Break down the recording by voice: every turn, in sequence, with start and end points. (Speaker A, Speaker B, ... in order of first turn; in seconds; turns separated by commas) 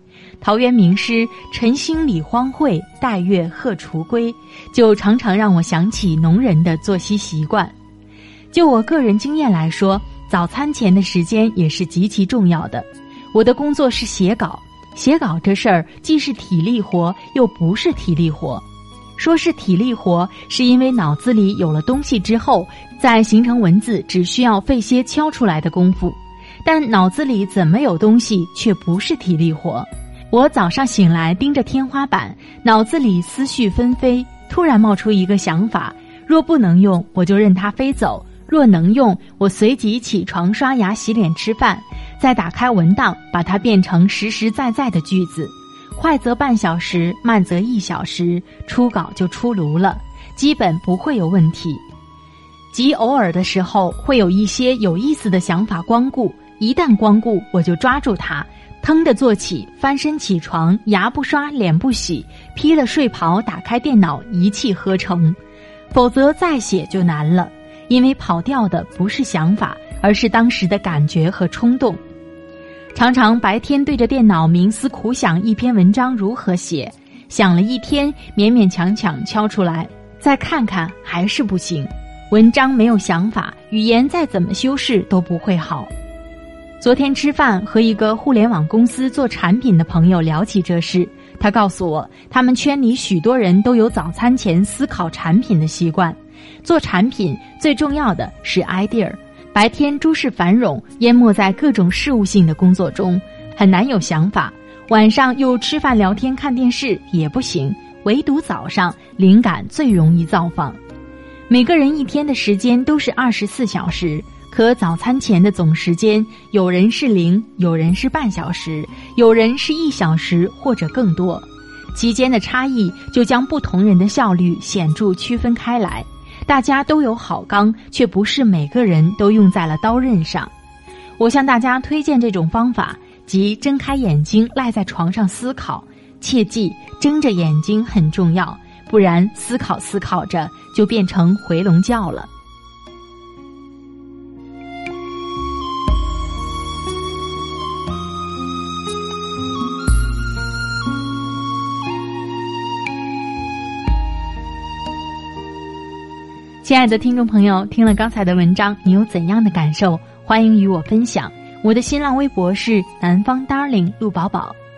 Speaker A: 0.4-7.7, Speaker A: 8.5-18.6, Speaker A: 19.2-51.8, Speaker A: 52.7-65.4, Speaker A: 65.9-72.0, Speaker A: 72.9-85.9, Speaker A: 86.8-110.8, Speaker A: 111.5-130.5, Speaker A: 131.2-142.3, Speaker A: 156.6-164.6